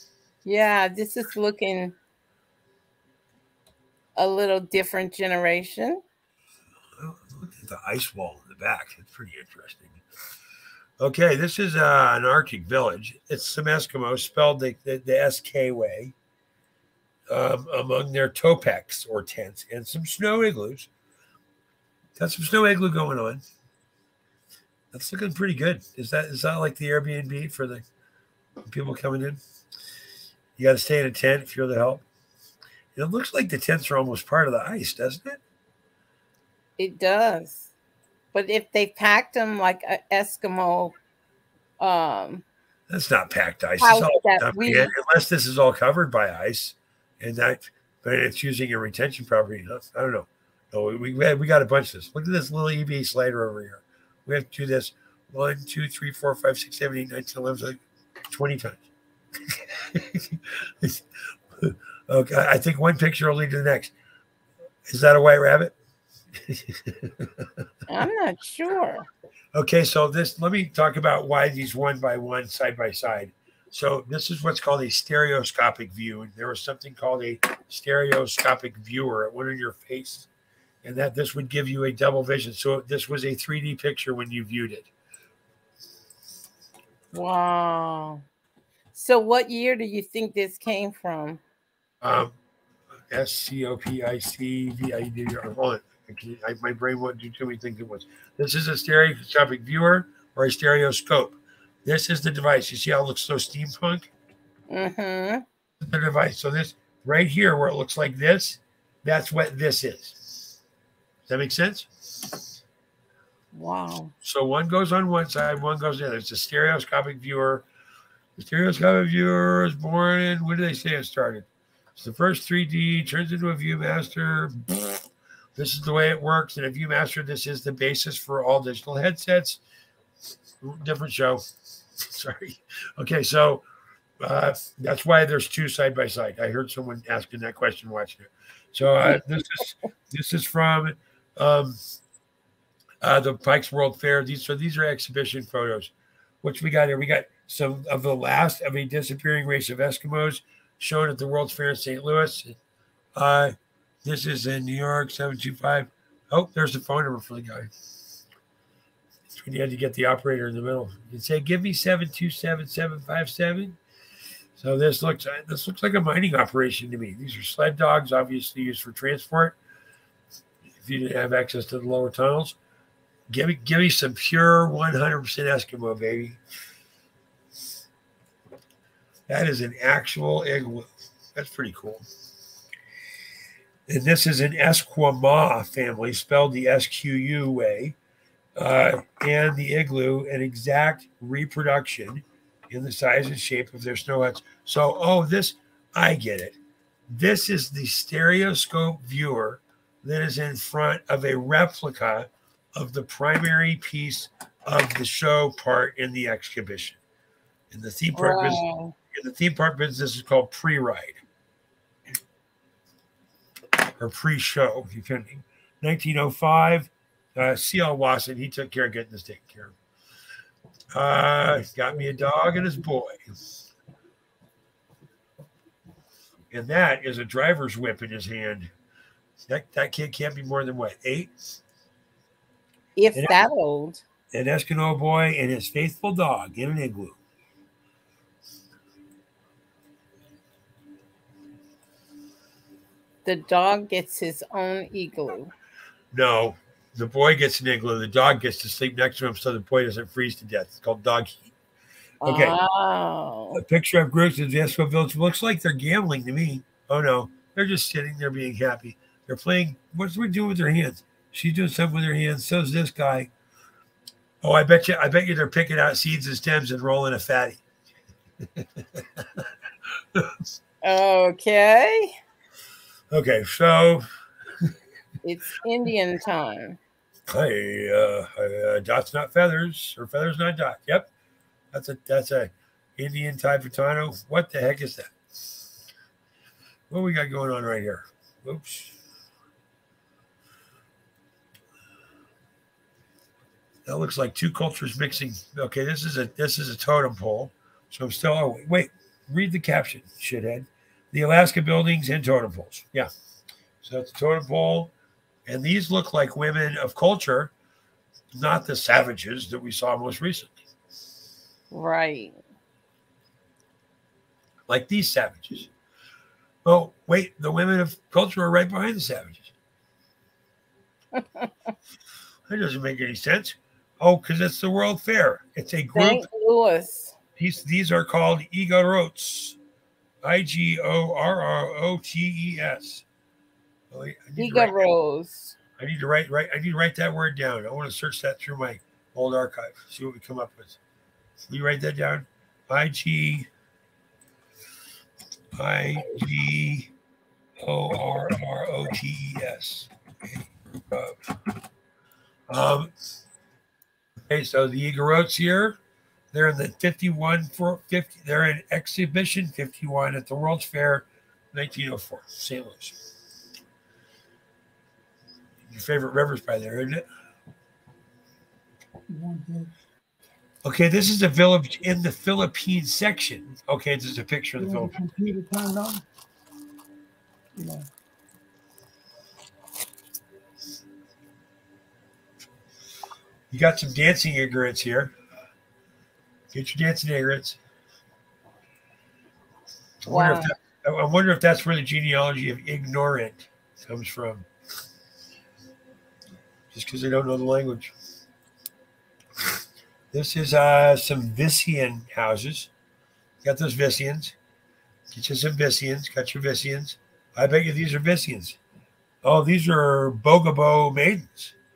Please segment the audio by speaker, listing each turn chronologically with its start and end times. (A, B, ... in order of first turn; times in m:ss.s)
0:00.4-0:02.0 A
0:04.2-0:06.0 A
0:07.0-0:10.0 B
0:11.0-0:16.1 B
0:17.3-0:20.9 B
0:22.2-0:23.4 B
0:24.9-0:27.8 B
0:28.7-0:29.4 B
0:30.6-0:32.0 B
0:33.0-0:35.4 B
0:36.8-0:37.7 A
0:38.3-0:41.0 A
0:41.8-0:42.4 A
0:42.9-0:58.8 B
0:43.8-0:44.9 A
0:59.5-1:01.0 B
1:01.6-1:03.9 B
1:04.9-1:05.7 B
1:06.4-1:07.5 B
1:07.9-1:09.1 A
1:09.6-1:20.3 B
1:20.8-1:24.9 B
1:27.1-1:28.2 A
1:28.9-1:31.4 A
1:32.0-1:32.4 B
1:33.1-1:44.1 B
1:44.7-1:45.4 A
1:45.8-1:50.4 B
1:51.3-1:51.9 B
1:53.5-1:54.1 A
1:54.2-1:57.7 B
1:58.4-2:04.9 B
2:05.6-2:09.6 B
2:10.6-2:11.4 B
2:12.0-2:13.6 B
2:14.2-2:21.8 B
2:23.0-2:32.6 B
2:33.2-2:37.7 B
2:39.3-2:43.8 B
2:44.6-2:49.6 B
2:50.8-2:52.6 B
2:53.3-2:56.4 B
2:59.3-3:02.0 B
3:03.9-3:08.0 B
3:08.6-3:16.6 B
3:17.1-3:27.0 B
3:27.7-3:31.2 B
3:28.2-3:29.0 A
3:34.0-3:39.8 B
3:41.0-3:43.2 B
3:46.5-3:48.7 B
3:49.5-3:51.3 B
3:53.0-3:54.0 A
3:53.2-3:53.5 B
3:54.3-3:57.2 B
4:03.2-4:05.5 A
4:06.1-4:11.5 B
4:12.2-4:13.6 A
4:12.2-4:12.6 B
4:13.6-4:23.3 B
4:24.4-4:27.6 B
4:28.6-4:29.4 B
4:30.1-4:30.4 B
4:30.8-4:32.2 A
4:33.1-4:34.0 B
4:35.2-4:36.8 A
4:37.3-4:41.1 B
4:41.7-4:45.1 B
4:46.9-4:49.0 B
4:53.9-5:03.1 B
5:03.8-5:04.9 B
5:05.5-5:07.5 B
5:08.3-5:10.6 B
5:11.7-5:12.4 A
5:14.7-5:15.7 B
5:16.6-5:19.5 B
5:21.1-5:21.7 A
5:22.5-5:26.3 B
5:26.0-5:27.2 A
5:27.4-5:29.6 B
5:30.2-5:33.0 B
5:33.9-5:34.8 B
5:34.4-5:35.6 A
5:35.8-5:40.8 B
5:41.5-5:43.5 B
5:45.5-5:46.9 B
5:47.6-5:49.9 B
5:50.9-5:51.2 B
5:52.5-5:52.9 B
5:54.3-5:55.8 B
5:56.3-6:03.0 B
6:05.7-6:07.0 B
6:09.1-6:09.7 C
6:10.6-6:15.0 B
6:14.6-6:16.0 C
6:17.6-6:17.9 A
6:23.5-6:25.2 B
6:26.5-6:27.6 B
6:30.0-6:34.5 B
6:30.1-6:30.5 A
6:36.7-6:37.9 B
6:40.1-6:42.7 B
6:43.4-6:44.4 B
6:45.1-6:48.6 B
6:49.2-6:51.6 B